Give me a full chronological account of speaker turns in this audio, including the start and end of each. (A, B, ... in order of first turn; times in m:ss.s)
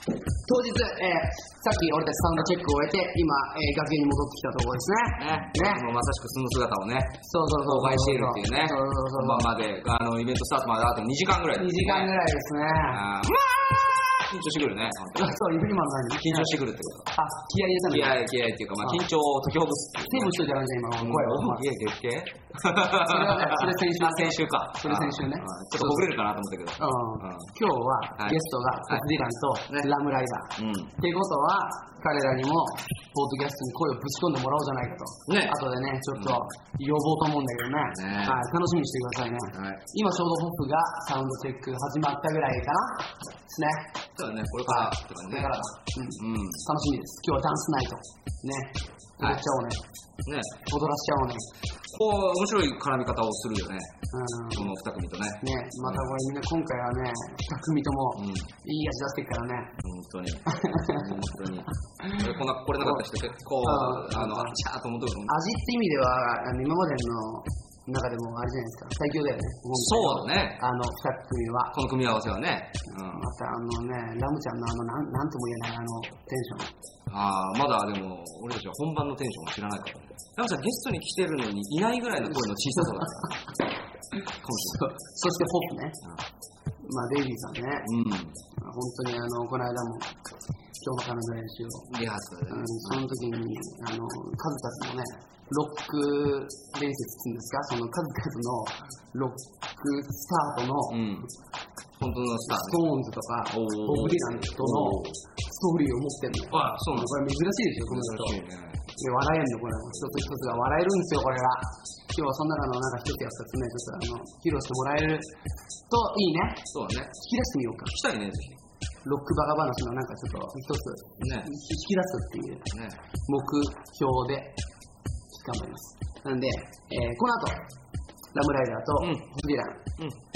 0:00.4-0:05.8 A
0:05.2-0:12.1 B
0:07.2-0:09.5 A
0:11.6-0:13.0 A
0:12.9-0:15.4 B
0:15.2-0:16.5 A
0:16.1-0:17.1 B
0:17.1-0:18.2 A
0:17.9-0:20.4 B
0:20.0-0:21.6 A
0:21.0-0:27.5 B
0:23.0-0:26.1 A
0:26.8-0:43.9 A
0:28.2-0:29.1 B
0:30.6-0:30.9 B
0:35.3-0:35.6 B
0:36.2-0:36.4 B
0:37.9-0:38.4 B
0:39.5-0:39.8 B
0:44.1-0:45.6 B
0:44.7-0:49.8 A
0:46.2-0:46.6 B
0:49.2-0:49.4 B
0:50.2-0:50.6 B
0:50.7-0:51.5 A
0:51.9-0:53.9 B
0:54.1-0:54.7 A
0:54.5-0:56.0 B
0:55.4-0:59.7 A
0:58.2-0:58.5 B
0:59.8-1:05.4 B
1:00.5-1:01.0 A
1:02.0-1:02.3 A
1:03.6-1:04.6 A
1:05.3-1:11.7 A
1:09.7-1:10.6 B
1:11.7-1:13.3 B
1:13.1-1:16.7 A
1:17.1-1:23.3 B
1:24.4-1:24.8 B
1:24.7-1:26.0 A
1:26.8-1:27.9 A
1:27.8-1:28.4 B
1:28.6-1:30.2 A
1:30.8-1:31.9 A
1:31.9-1:33.0 B
1:32.5-1:41.0 A
1:40.9-1:41.3 B
1:42.0-1:43.0 B
1:42.5-1:48.4 A
1:43.5-1:45.2 B
1:46.5-1:47.2 B
1:47.8-1:48.8 B
1:49.0-1:55.3 A
1:55.9-1:56.6 A
1:56.7-1:57.2 B
1:57.2-1:57.9 A
1:57.9-1:58.6 B
1:59.0-2:02.7 A
2:01.2-2:01.5 B
2:02.7-2:03.0 B
2:03.3-2:04.6 A
2:05.3-2:07.6 A
2:08.3-2:09.9 A
2:09.0-2:09.3 B